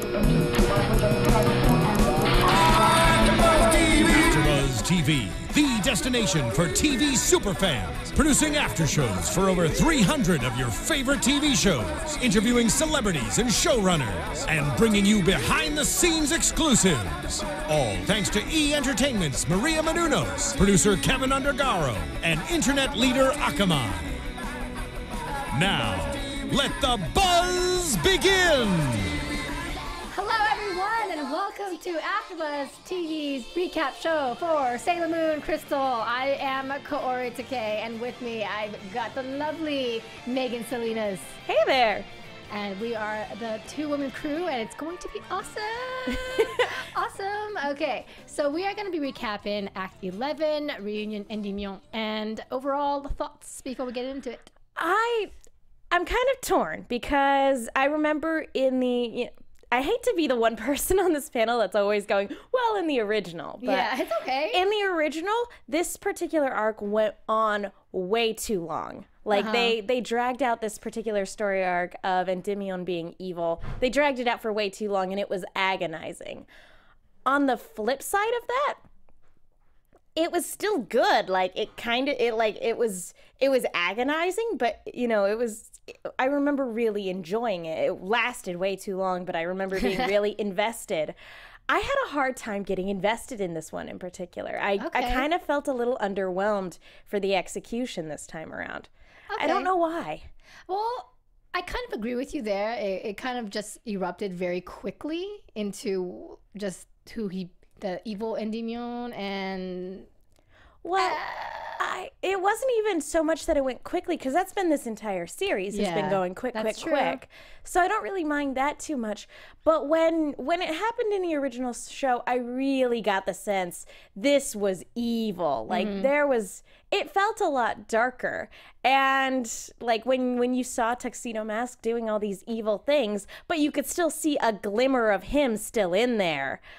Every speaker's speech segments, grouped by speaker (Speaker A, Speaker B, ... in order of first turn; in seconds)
Speaker A: 2.7-24.2, 25.5-29.2
Speaker B: 30.1-41.4, 42.5-54.5, 63.6-64.6, 69.3-69.8, 94.8-95.3, 99.3-99.7, 100.7-110.1, 111.0-111.8, 115.7-117.2, 125.7-126.1
Speaker C: 41.5-42.1, 46.1-46.7, 54.7-55.3, 55.9-63.9, 64.5-76.5, 77.2-78.8, 80.1-91.2, 91.7-100.3, 110.8-111.2, 111.8-136.6